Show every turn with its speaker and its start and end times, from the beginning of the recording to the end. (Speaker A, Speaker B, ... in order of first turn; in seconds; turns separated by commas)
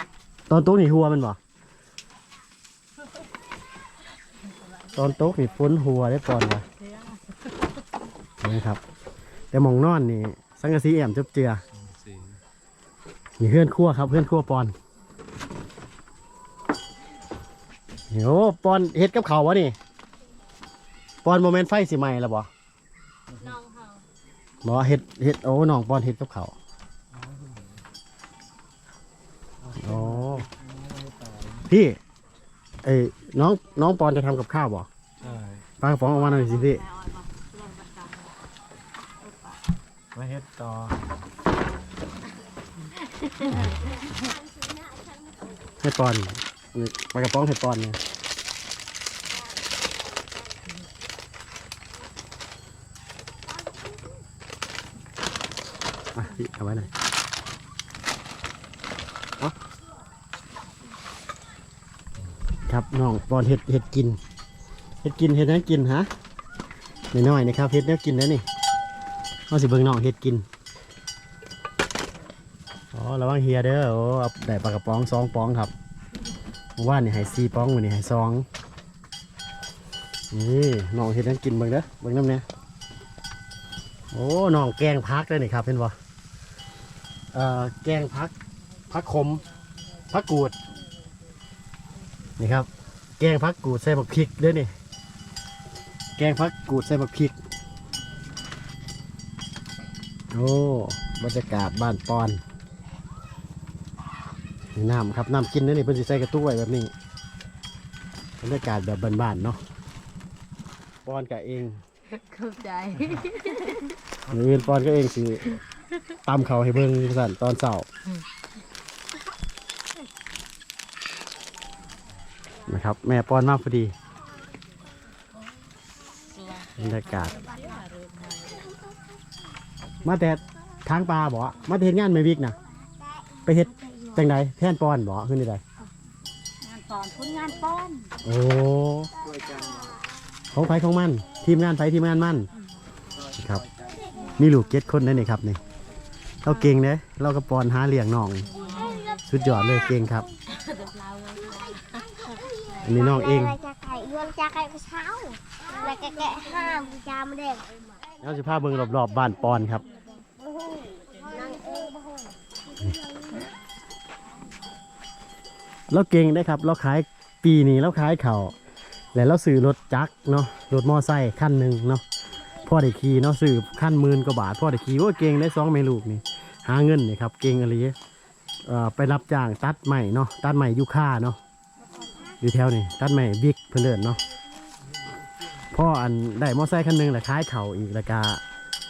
Speaker A: 0.5-1.4, Speaker A: 4.9-6.6, Speaker A: 8.4-8.8, Speaker A: 9.5-11.6, Speaker B: 11.7-12.4, Speaker A: 13.4-14.7, Speaker A: 18.1-19.8, Speaker A: 21.2-22.5, Speaker A: 24.6-26.5, Speaker B: 27.1-27.8, Speaker B: 29.6-31.6, Speaker A: 29.8-30.4, Speaker A: 31.7-32.0, Speaker A: 32.8-34.9, Speaker B: 35.2-35.6, Speaker A: 35.8-36.8, Speaker C: 37.0-38.1, Speaker B: 40.1-41.0, Speaker A: 45.8-48.0, Speaker A: 56.1-56.9, Speaker A: 62.7-64.2, Speaker A: 65.0-66.1, Speaker A: 67.1-68.4, Speaker A: 69.5-70.5, Speaker A: 72.9-75.7, Speaker A: 76.8-78.5, Speaker A: 80.3-82.4, Speaker A: 84.1-85.9, Speaker A: 87.3-88.3, Speaker A: 88.9-89.4, Speaker A: 90.1-90.5, Speaker A: 92.4-94.7, Speaker A: 96.2-97.3, Speaker A: 100.3-102.4, Speaker A: 104.7-106.9, Speaker A: 108.4-109.6, Speaker A: 111.0-111.8, Speaker C: 112.1-113.8, Speaker A: 114.3-115.6, Speaker A: 116.2-117.9, Speaker A: 122.7-123.9, Speaker A: 126.8-127.4, Speaker C: 127.3-127.8, Speaker A: 130.0-132.6, Speaker A: 133.4-135.6, Speaker D: 133.8-134.1, Speaker C: 136.6-138.1, Speaker A: 138.2-139.1, Speaker B: 139.3-139.8, Speaker A: 140.5-142.5, Speaker A: 143.3-143.6, Speaker A: 144.3-145.6, Speaker A: 146.4-148.5, Speaker C: 148.6-149.0, Speaker D: 148.8-149.1, Speaker A: 149.2-150.3, Speaker C: 150.7-151.8, Speaker D: 152.2-157.7, Speaker A: 152.8-153.6, Speaker A: 158.2-159.8, Speaker D: 161.2-162.3, Speaker A: 165.9-168.5, Speaker A: 169.1-172.0, Speaker A: 172.6-177.9, Speaker A: 178.7-181.4, Speaker A: 182.4-184.2, Speaker A: 185.7-188.4